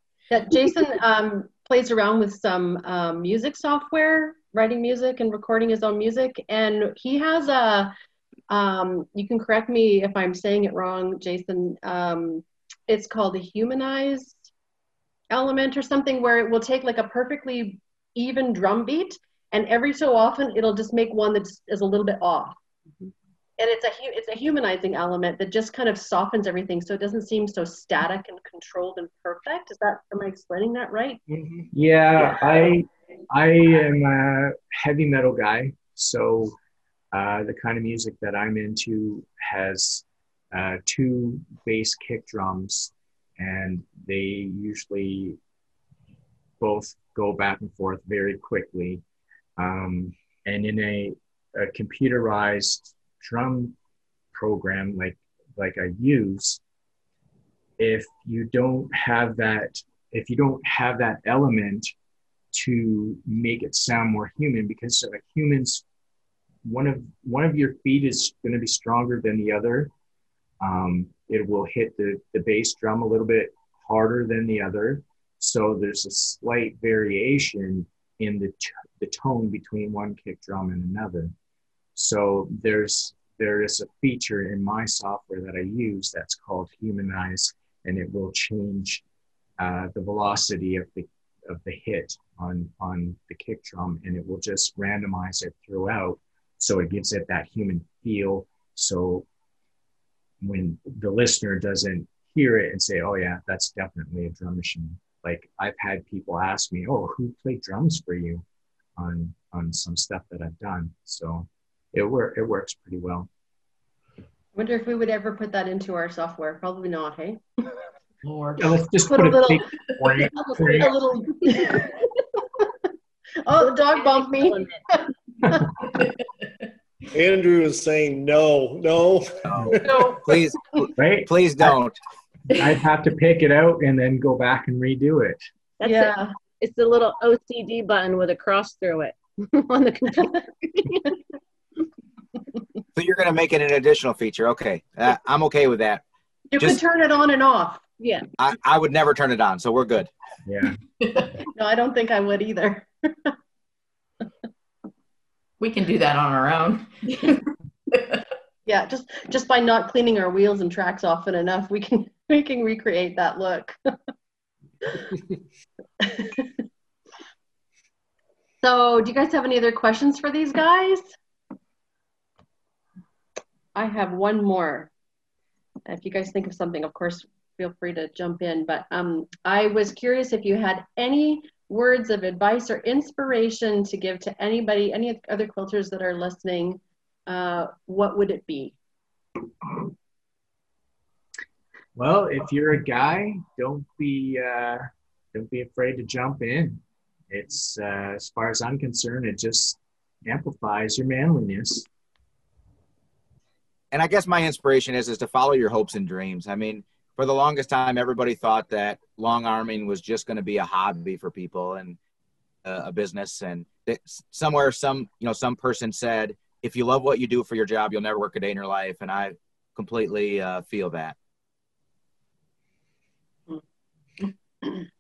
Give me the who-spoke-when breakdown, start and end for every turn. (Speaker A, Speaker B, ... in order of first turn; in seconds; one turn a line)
Speaker A: 0.3-7.9
Speaker A: 8.5-14.4
Speaker A: 15.3-22.6
Speaker A: 23.6-31.2
Speaker B: 31.3-36.6
Speaker B: 37.1-45.4
Speaker B: 46.6-49.0
Speaker B: 49.6-53.8
Speaker B: 54.3-56.6
Speaker B: 57.8-61.9
Speaker B: 62.5-65.8
Speaker B: 66.7-69.9
Speaker B: 70.6-81.3
Speaker B: 82.0-89.0
Speaker B: 89.6-99.3
Speaker B: 100.4-108.5
Speaker B: 109.0-113.3
Speaker A: 114.5-117.4
Speaker C: 118.2-118.8
Speaker B: 118.6-120.9
Speaker A: 119.1-122.7
Speaker A: 123.4-125.7
Speaker D: 123.9-124.8
Speaker C: 126.0-126.2
Speaker E: 127.1-130.2
Speaker F: 129.5-132.0
Speaker A: 129.8-130.4
Speaker B: 131.0-131.8
Speaker B: 132.5-135.4
Speaker D: 135.8-141.1
Speaker A: 135.8-136.3
Speaker F: 142.9-146.0
Speaker A: 146.5-147.8
Speaker D: 148.0-148.3
Speaker F: 148.4-150.1
Speaker B: 150.4-150.8
Speaker C: 151.0-151.3
Speaker A: 151.5-153.3
Speaker C: 155.6-158.2
Speaker A: 158.7-163.8
Speaker A: 166.0-166.5
Speaker A: 168.6-171.1
Speaker A: 173.8-174.9
Speaker A: 175.9-188.8
Speaker B: 192.0-201.9
Speaker F: 203.9-212.0
Speaker F: 212.7-221.2